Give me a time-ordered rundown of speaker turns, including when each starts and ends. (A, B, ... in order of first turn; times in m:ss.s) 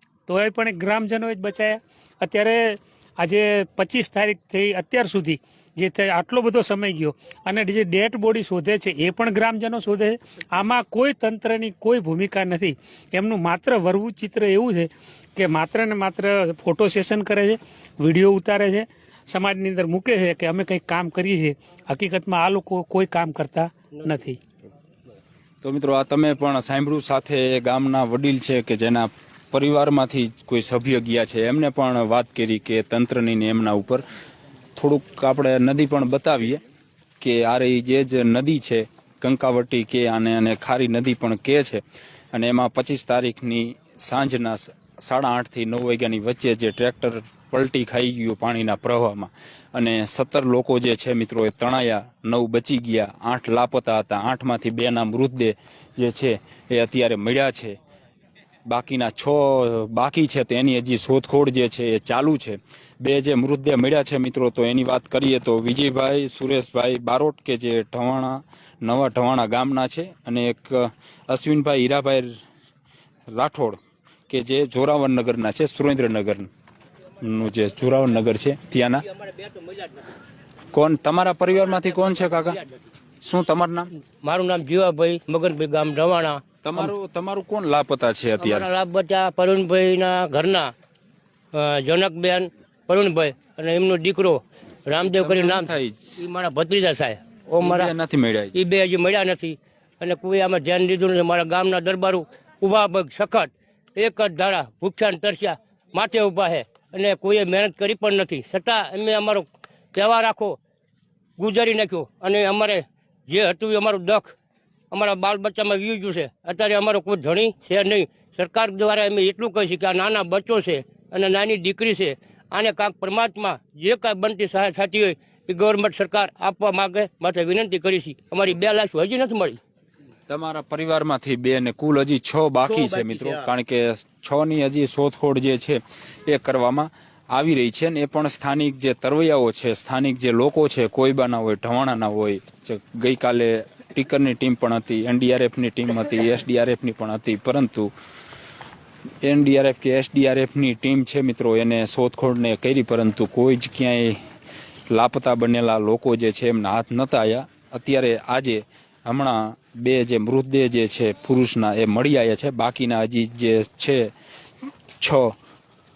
0:00.3-0:24.4 A
0:25.6-0:34.0 B
0:34.8-0:36.6 B
0:37.2-0:41.8 B
0:42.3-0:57.8 B
0:58.7-1:12.3 B
1:13.3-1:16.5 B
1:17.2-1:19.1 B
1:19.4-1:19.8 C
1:20.7-1:22.6 B
1:23.2-1:23.9 B
1:24.2-1:26.9 C
1:26.6-1:28.7 B
1:28.4-1:30.7 C
1:31.5-1:37.9 C
1:35.1-1:36.2 B
1:37.6-1:38.5 B
1:38.5-1:50.6 C
1:51.4-1:54.4 C
1:54.9-2:09.6 C
2:10.3-2:27.9 B
2:12.7-2:13.5 C
2:29.2-2:34.2 B
2:34.9-2:44.1 B
2:45.0-2:45.3 B